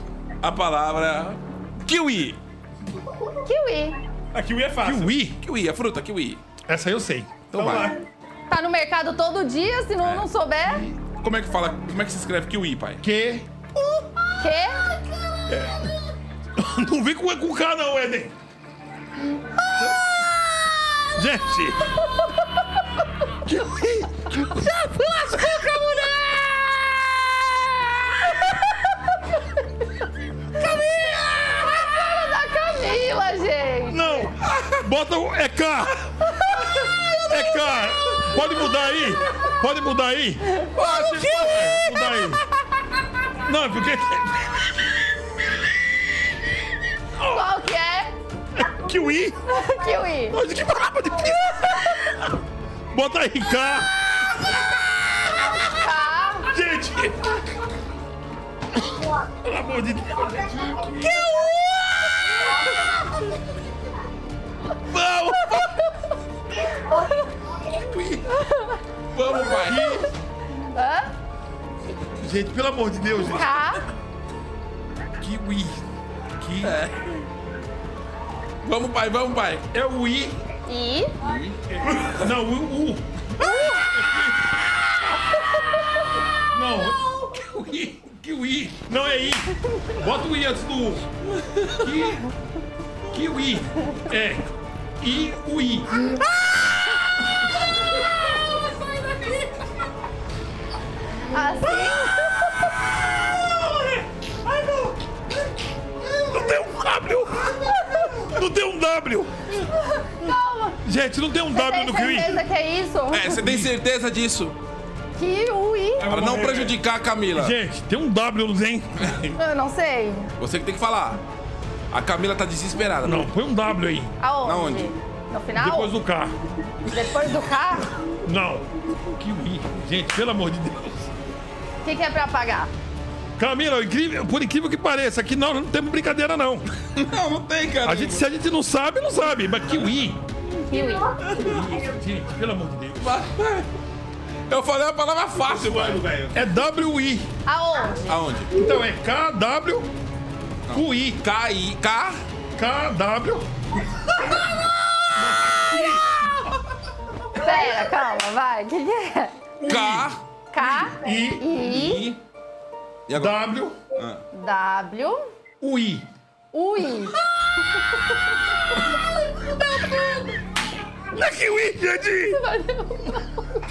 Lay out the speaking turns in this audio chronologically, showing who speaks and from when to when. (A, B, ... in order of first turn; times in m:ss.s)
0:00.4-0:02.4 A
0:03.4-0:04.0 B
0:04.3-0:05.1 C
0:04.8-0:05.4 D
0:05.4-0:06.4 A
0:06.7-0:07.9 D
0:07.5-0:07.9 A
0:07.6-0:08.0 C
0:08.5-0:10.8 B
0:10.6-0:11.0 D
0:11.2-0:13.0 A
0:13.0-0:13.5 D
0:14.4-0:14.8 B
0:16.6-0:18.3 D
0:21.1-0:21.9 D
0:23.4-0:26.8 D
0:30.7-0:31.2 D
0:31.6-0:34.3 B
0:33.9-0:36.1 D
0:37.1-0:40.6 D
0:40.7-0:41.8 A
0:41.3-0:42.4 D
0:43.4-0:44.7 D
0:47.2-0:47.5 D
0:47.2-0:48.1 B
0:48.6-0:49.4 D
0:49.5-0:50.4 B
0:50.3-0:52.2 D
0:52.9-0:54.4 D
0:55.5-0:56.5 B
0:56.5-0:57.4 D
0:59.3-1:01.3 D
1:07.8-1:08.3 D
1:08.4-1:08.8 B
1:09.1-1:10.0 A
1:09.4-1:10.1 D
1:10.7-1:11.1 B
1:12.2-1:13.5 D
1:13.3-1:13.8 B
1:15.2-1:15.9 D
1:16.4-1:16.8 D
1:16.6-1:17.2 A
1:18.6-1:19.7 A
1:19.7-1:20.4 D
1:20.7-1:21.1 B
1:21.2-1:21.6 A
1:21.7-1:24.6 D
1:23.4-1:23.9 B
1:26.5-1:31.1 D
1:31.8-1:32.3 D
1:33.1-1:34.5 D
1:35.0-1:36.2 D
1:41.3-1:42.7 B
1:46.2-1:47.6 D
1:48.2-1:49.4 D
1:49.5-1:50.8 B
1:50.8-1:52.4 D
1:51.5-1:53.4 B
1:53.1-1:54.6 A
1:53.4-1:53.7 D
1:55.2-1:56.1 B
1:56.0-1:56.8 C
1:56.1-1:57.6 A
1:57.4-1:59.2 D
1:59.0-1:59.3 A
1:59.4-2:00.3 B
2:00.4-2:01.2 A
2:01.9-2:03.3 A
2:03.0-2:04.1 D
2:04.2-2:05.9 B
2:04.4-2:04.9 A
2:05.6-2:06.3 D
2:06.9-2:07.9 B
2:08.2-2:11.1 D
2:11.8-2:12.7 B
2:13.4-2:16.7 D
2:17.0-2:18.2 A
2:17.8-2:20.2 D
2:20.7-2:21.2 B
2:21.3-2:23.2 D
2:23.0-2:23.7 A
2:24.5-2:26.0 A
2:25.4-2:26.4 C
2:26.3-2:27.3 D
2:27.5-2:28.2 B
2:28.1-2:28.6 A
2:28.5-2:29.9 D
2:30.7-2:32.2 A
2:30.7-2:31.2 D
2:32.6-2:33.5 D
2:35.3-2:36.0 D
2:37.4-2:39.4 B
2:39.6-2:40.1 D
2:39.7-2:40.2 A
2:40.5-2:42.1 B
2:40.8-2:41.6 D
2:41.6-2:42.2 A
2:43.1-2:43.4 A
2:43.1-2:43.8 D
2:44.0-2:44.2 A
2:44.3-2:45.2 B
2:45.6-2:46.1 D
2:46.5-2:47.2 B
2:51.1-2:52.4 D
2:52.3-2:53.4 B